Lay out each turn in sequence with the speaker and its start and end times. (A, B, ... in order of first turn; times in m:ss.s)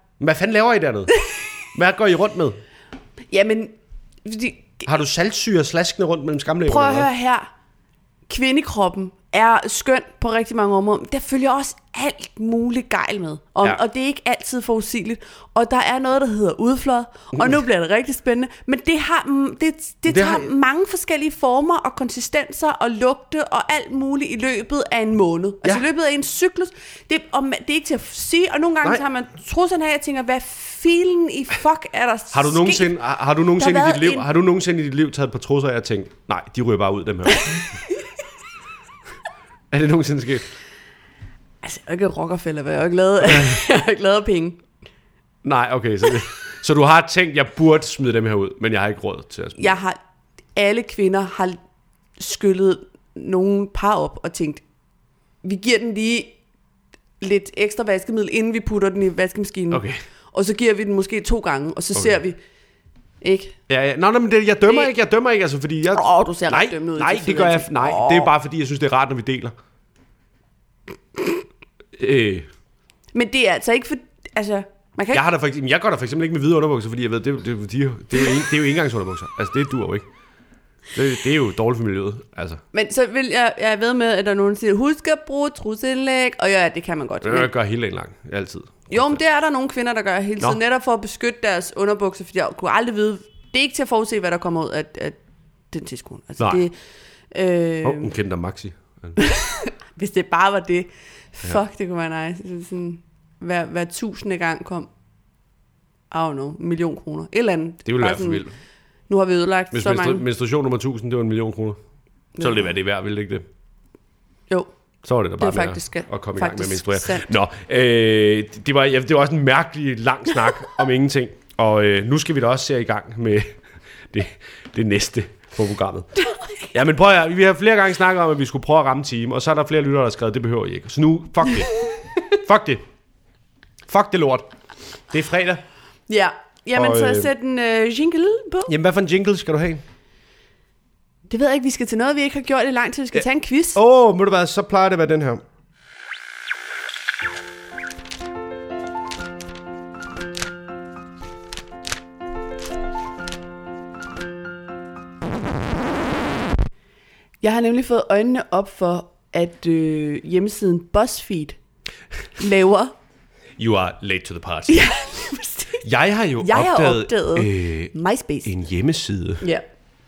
0:00.2-0:01.1 A
0:01.7-0:02.6 A
0:03.3-0:04.8 B
0:04.8-0:07.1 A
0:06.6-0:07.5 B
0:08.3-0:32.9 B
0:20.1-0:20.5 A
0:32.3-0:37.6 A
0:33.6-0:34.3 B
0:37.3-0:38.0 B
0:39.7-0:40.5 A
0:41.6-0:44.6 B
0:43.3-0:43.6 A
0:45.4-0:49.7 A
0:49.6-0:50.0 B
0:50.5-0:51.6 B
0:52.2-0:54.6 B
0:55.4-0:56.4 B
0:57.2-1:02.4 B
0:59.7-1:00.0 A
1:03.2-1:03.6 B
1:03.7-1:09.5 A
1:05.9-1:08.3 B
1:12.0-1:12.5 A
1:13.1-1:15.2 B
1:15.1-1:20.0 A
1:20.9-1:22.6 A
1:22.7-1:27.5 B
1:27.2-1:29.2 A
1:28.9-1:35.2 B
1:35.7-1:36.7 B
1:36.4-1:36.6 A
1:37.3-1:38.1 B
1:37.8-1:39.2 A
1:39.2-1:44.9 B
1:46.1-1:48.4 B
1:47.8-1:48.5 A
1:49.1-1:50.2 B
1:49.7-1:51.8 A
1:52.4-1:52.7 B
1:52.4-1:53.4 A
1:55.0-2:03.5 A
1:55.4-1:57.3 B
2:04.1-2:06.1 A
2:06.2-2:06.7 B
2:06.7-2:11.7 A
2:11.7-2:12.4 B
2:12.3-2:12.8 A
2:13.9-2:14.5 A
2:15.1-2:15.6 A
2:16.1-2:18.7 B
2:16.7-2:17.3 A
2:18.7-2:19.8 A
2:21.3-2:23.8 B
2:23.7-2:25.4 A
2:37.4-2:41.6 B
2:42.4-2:42.9 B
2:43.6-2:44.9 A
2:44.7-2:45.8 B
2:45.8-2:47.9 A
2:46.4-2:48.5 B
2:48.4-2:49.4 A